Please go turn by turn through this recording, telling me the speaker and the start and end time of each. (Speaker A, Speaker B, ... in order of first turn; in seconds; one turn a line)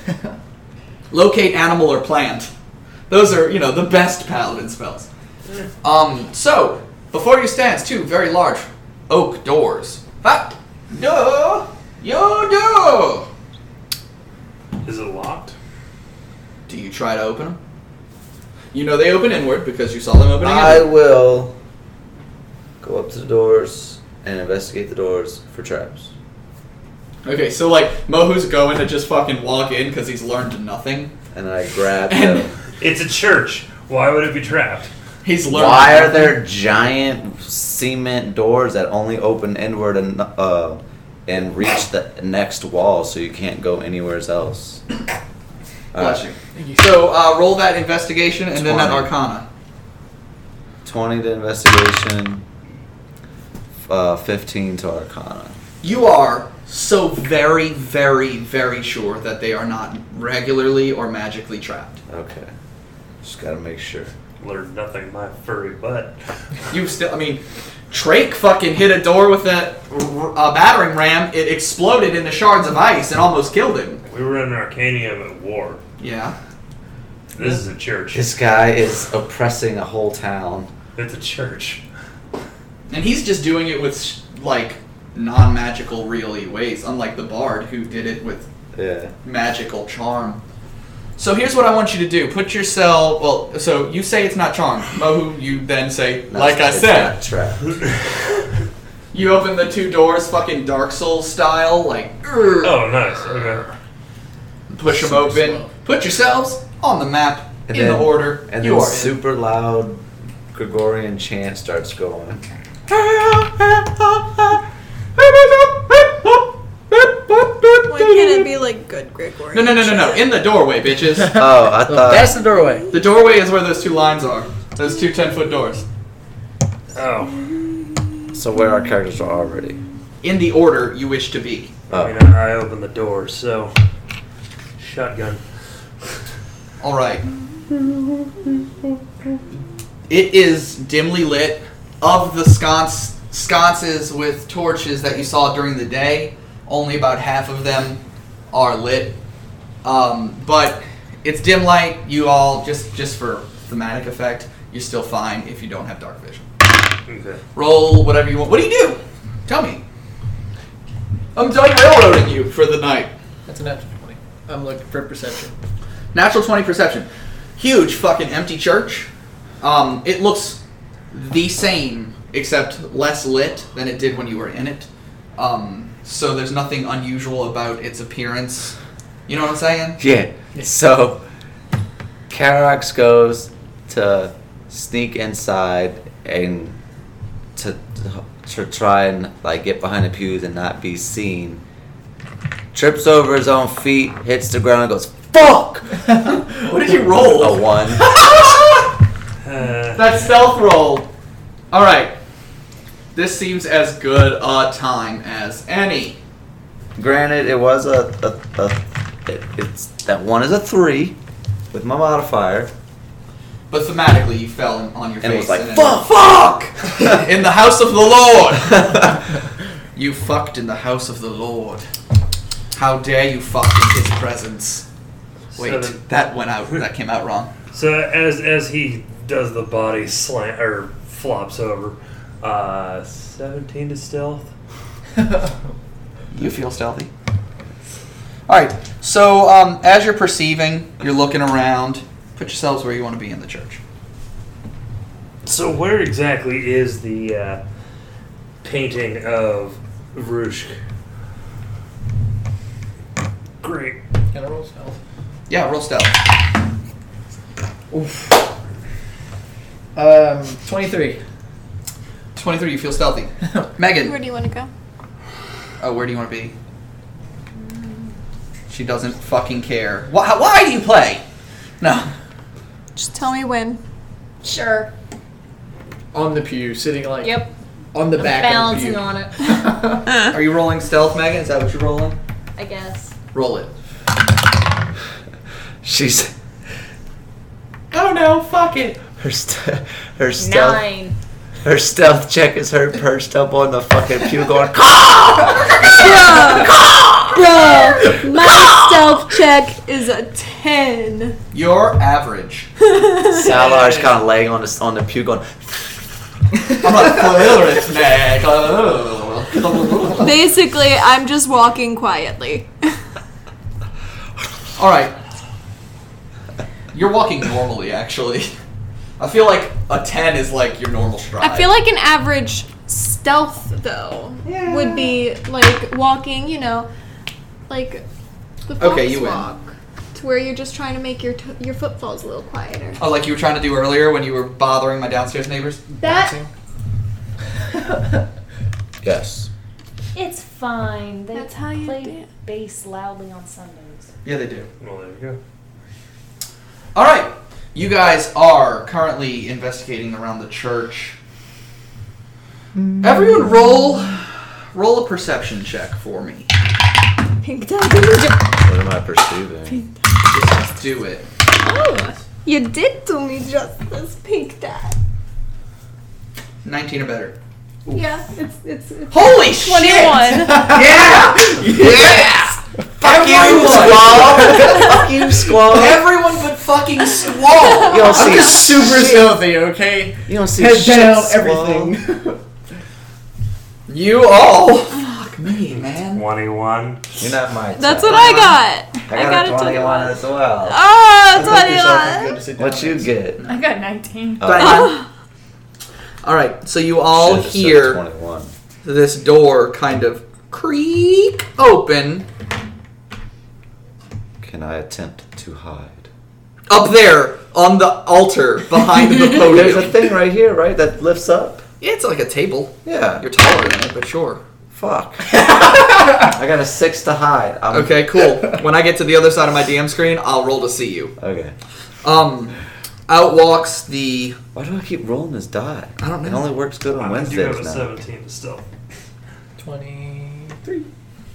Speaker A: 1.1-2.5
Speaker A: 3.1-5.1
Speaker A: 5.8-13.3
Speaker B: 14.8-15.6
Speaker A: 16.7-17.6
Speaker A: 18.7-20.9
Speaker C: 20.4-21.6
Speaker C: 22.8-26.1
Speaker A: 27.2-31.1
Speaker C: 31.3-32.5
Speaker A: 32.1-32.5
Speaker B: 32.8-34.9
Speaker A: 35.2-36.4
Speaker C: 35.5-44.8
Speaker C: 45.9-46.3
Speaker A: 46.0-49.5
Speaker D: 46.5-46.9
Speaker C: 48.5-49.1
Speaker C: 50.9-52.4
Speaker C: 53.9-55.6
Speaker A: 55.8-62.0
Speaker C: 62.1-62.5
Speaker C: 63.2-64.1
Speaker B: 64.4-66.2
Speaker A: 66.7-74.0
Speaker B: 74.1-75.8
Speaker A: 76.0-76.4
Speaker B: 77.4-78.3
Speaker C: 78.1-80.7
Speaker B: 81.0-81.8
Speaker A: 82.9-88.5
Speaker C: 88.7-89.1
Speaker A: 89.2-90.4
Speaker A: 91.2-97.2
Speaker C: 96.3-97.8
Speaker B: 97.7-98.0
Speaker A: 99.1-103.5
Speaker B: 102.6-103.7
Speaker A: 104.7-109.2
Speaker D: 104.9-105.7
Speaker C: 107.7-112.5
Speaker A: 112.9-114.6
Speaker A: 115.2-118.5
Speaker E: 117.9-120.3
Speaker A: 119.5-121.4
Speaker C: 121.3-122.3
Speaker D: 121.4-122.9
Speaker A: 122.9-125.9
Speaker B: 126.9-127.6
Speaker C: 128.3-129.8
Speaker A: 130.2-131.8
Speaker C: 131.9-132.2
Speaker B: 131.9-133.7
Speaker B: 134.8-135.4
Speaker A: 136.8-137.3
Speaker A: 140.1-149.2
Speaker A: 149.8-156.5
Speaker B: 157.1-157.4
Speaker A: 157.6-159.8
Speaker A: 161.3-163.1
Speaker D: 163.5-165.6
Speaker A: 166.1-169.1
Speaker A: 169.6-170.6
Speaker A: 171.1-178.8
Speaker A: 179.3-180.0
Speaker C: 180.0-181.2
Speaker C: 182.3-186.8
Speaker C: 187.6-191.6
Speaker C: 192.7-196.1
Speaker A: 196.2-198.9
Speaker C: 197.2-198.2
Speaker B: 199.4-200.1
Speaker A: 199.9-201.1
Speaker A: 201.7-202.2
Speaker A: 203.2-206.2
Speaker C: 207.0-211.2
Speaker C: 211.7-212.7
Speaker A: 213.7-219.1
Speaker C: 215.2-217.2
Speaker C: 218.7-219.2
Speaker A: 219.9-221.8
Speaker A: 222.7-224.8
Speaker B: 225.5-226.0
Speaker A: 225.6-227.5
Speaker B: 227.7-234.5
Speaker A: 236.3-237.1
Speaker A: 238.5-243.8
Speaker B: 245.5-247.6
Speaker B: 248.6-250.8
Speaker B: 253.6-254.0
Speaker D: 254.3-255.0
Speaker A: 255.5-256.2
Speaker D: 257.9-258.4
Speaker D: 260.0-261.2
Speaker A: 262.4-264.2
Speaker E: 264.0-264.7
Speaker A: 265.8-266.5
Speaker F: 267.6-268.1
Speaker A: 268.7-271.2
Speaker A: 271.8-272.1
Speaker E: 273.0-273.8
Speaker F: 274.4-274.9
Speaker D: 276.1-280.0
Speaker F: 277.2-277.5
Speaker F: 278.2-279.5
Speaker A: 280.2-282.2
Speaker F: 282.6-283.1
Speaker A: 283.3-283.7
Speaker C: 285.8-286.3
Speaker A: 287.9-289.0
Speaker C: 289.2-290.8
Speaker F: 290.4-291.1
Speaker C: 291.6-297.1
Speaker E: 295.9-296.8
Speaker E: 297.3-301.4
Speaker A: 301.5-302.7
Speaker E: 302.9-303.5
Speaker C: 303.3-305.8
Speaker B: 303.5-304.1
Speaker A: 306.8-310.4
Speaker E: 310.2-312.9
Speaker A: 314.8-315.2
Speaker A: 316.9-318.5
Speaker A: 319.2-321.7
Speaker E: 321.4-326.9
Speaker A: 324.4-325.1
Speaker E: 327.7-328.1
Speaker E: 328.7-333.0
Speaker A: 328.8-329.5
Speaker A: 333.0-335.8
Speaker E: 335.9-336.4
Speaker D: 336.0-336.5
Speaker D: 337.8-338.2
Speaker C: 339.0-339.5
Speaker F: 340.1-344.1
Speaker E: 341.3-342.3
Speaker A: 344.2-344.7
Speaker B: 344.8-345.4
Speaker A: 346.9-351.2
Speaker A: 353.0-356.5
Speaker E: 357.4-358.6
Speaker C: 358.6-359.8
Speaker E: 359.7-359.9
Speaker A: 360.3-361.3
Speaker E: 361.6-365.0
Speaker A: 366.6-367.4
Speaker E: 367.9-370.7
Speaker A: 369.1-372.2
Speaker D: 370.4-372.2
Speaker C: 371.6-376.1
Speaker A: 373.0-374.8
Speaker E: 374.6-374.9
Speaker A: 375.6-378.6
Speaker E: 377.7-378.0
Speaker C: 377.9-379.4
Speaker D: 378.1-382.4
Speaker C: 380.3-381.9
Speaker A: 383.9-386.2
Speaker B: 385.7-387.2
Speaker C: 387.2-388.3
Speaker E: 387.7-392.4
Speaker A: 388.0-388.6
Speaker C: 389.1-390.8
Speaker D: 391.3-393.1
Speaker C: 392.6-393.4
Speaker F: 393.4-394.6
Speaker C: 394.4-394.8
Speaker A: 394.4-395.0
Speaker E: 394.6-395.1
Speaker A: 396.2-398.0
Speaker C: 397.1-398.5
Speaker A: 398.8-402.3
Speaker C: 404.4-406.1
Speaker A: 406.7-410.0
Speaker C: 409.4-411.6
Speaker A: 411.8-414.4
Speaker C: 412.9-413.3
Speaker C: 414.7-415.4
Speaker C: 416.2-418.0
Speaker A: 417.7-421.1
Speaker C: 421.2-421.6
Speaker A: 422.0-422.6
Speaker A: 423.1-424.4
Speaker C: 424.6-427.9
Speaker A: 426.0-426.4
Speaker B: 427.0-428.6
Speaker D: 429.6-430.6